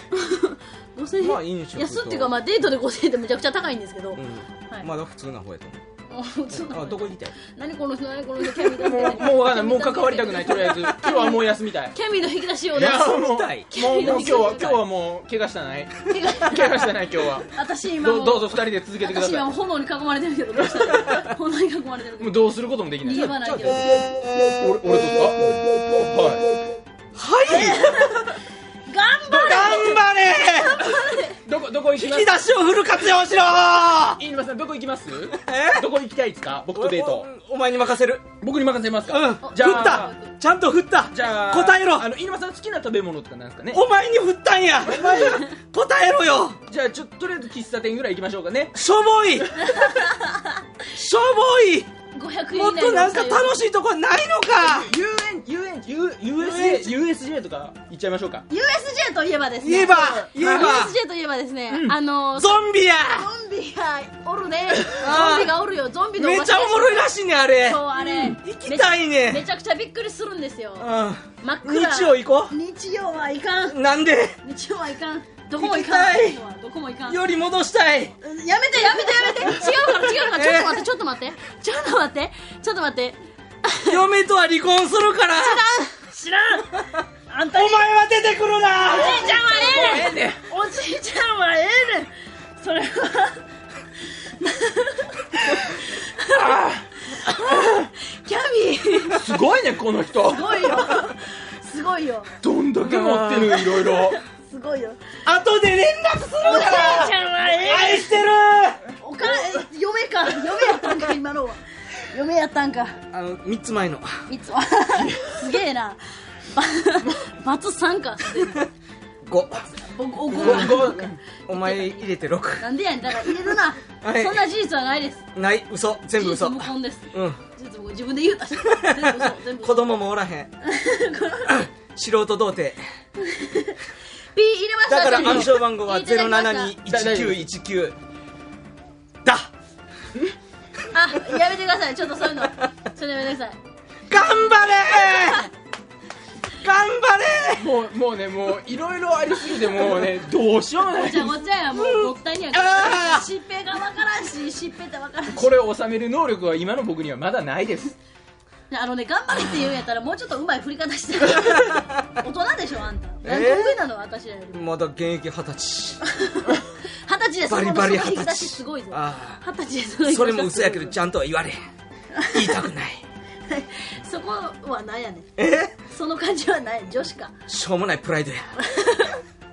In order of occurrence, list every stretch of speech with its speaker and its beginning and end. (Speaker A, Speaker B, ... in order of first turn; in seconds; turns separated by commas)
Speaker A: 0.1-4.9, Speaker B: 1.2-2.4, Speaker B: 4.1-5.8, Speaker A: 6.1-14.8, Speaker B: 6.5-7.3, Speaker C: 8.6-11.9, Speaker C: 12.7-17.5, Speaker B: 12.7-14.8, Speaker A: 16.1-16.9, Speaker A: 17.5-22.5, Speaker C: 18.0-19.5, Speaker C: 22.2-23.2, Speaker A: 23.0-24.1, Speaker B: 23.1-24.3, Speaker C: 24.6-26.4, Speaker B: 27.1-28.1, Speaker A: 27.4-31.4, Speaker C: 29.3-30.0, Speaker B: 29.3-30.9, Speaker C: 31.4-32.4, Speaker B: 31.9-34.2, Speaker C: 34.2-37.3, Speaker B: 35.3-35.9, Speaker B: 36.7-38.3, Speaker C: 38.4-40.1, Speaker B: 39.1-42.1, Speaker A: 39.4-40.4, Speaker C: 41.1-43.8, Speaker B: 43.7-46.6, Speaker C: 46.7-48.8, Speaker B: 48.7-49.7, Speaker C: 49.4-49.8, Speaker A: 49.7-50.5, Speaker B: 50.9-51.9, Speaker A: 52.1-53.6, Speaker B: 52.5-54.9, Speaker C: 54.6-58.4, Speaker B: 56.4-56.9, Speaker A: 58.5-67.1, Speaker B: 59.6-61.0, Speaker C: 59.9-60.8, Speaker C: 61.7-62.0, Speaker B: 62.3-63.3, Speaker B: 65.0-65.5, Speaker B: 66.2-69.5, Speaker A: 67.6-73.8, Speaker B: 70.8-72.5, Speaker B: 73.7-74.4, Speaker A: 74.4-77.2, Speaker B: 75.5-76.4, Speaker B: 77.0-78.1, Speaker A: 78.2-84.0, Speaker B: 79.0-79.7, Speaker B: 80.2-80.8, Speaker B: 83.8-85.6, Speaker A: 85.4-87.9, Speaker B: 86.8-89.4, Speaker A: 88.9-93.4, Speaker C: 88.9-90.4, Speaker A: 94.4-99.2, Speaker C: 96.3-96.9, Speaker C: 97.5-97.9, Speaker C: 99.1-100.9, Speaker A: 100.2-102.3, Speaker C: 102.4-104.2, Speaker B: 102.8-103.8, Speaker A: 103.9-105.1, Speaker B: 105.2-108.8, Speaker A: 106.4-108.2, Speaker A: 109.0-113.0, Speaker B: 113.1-114.3, Speaker A: 114.3-118.7, Speaker B: 119.2-119.7, Speaker A: 119.7-125.2, Speaker B: 120.3-120.9, Speaker C: 120.3-121.2, Speaker B: 121.5-123.4, Speaker B: 124.0-124.5, Speaker B: 125.3-127.4, Speaker A: 126.2-130.0, Speaker B: 128.6-130.5, Speaker A: 130.6-131.6, Speaker B: 131.4-132.8, Speaker A: 133.2-133.8, Speaker A: 134.3-136.8, Speaker B: 134.9-138.0, Speaker C: 135.1-135.6, Speaker C: 136.8-137.5, Speaker B: 139.2-139.5, Speaker A: 140.9-143.6, Speaker B: 144.1-145.5, Speaker A: 144.9-145.4, Speaker B: 146.6-147.7, Speaker C: 147.6-151.4, Speaker A: 150.9-155.5, Speaker B: 151.7-153.3, Speaker C: 155.3-158.0, Speaker A: 158.7-164.7, Speaker B: 161.3-161.8, Speaker B: 163.2-163.8, Speaker B: 164.5-166.0, Speaker A: 166.0-170.9, Speaker B: 167.5-169.4, Speaker B: 170.1-171.6, Speaker A: 172.1-172.6, Speaker B: 172.3-173.0, Speaker A: 173.5-175.3, Speaker B: 175.3-175.8, Speaker A: 175.9-177.3, Speaker B: 177.5-178.6, Speaker A: 178.6-179.2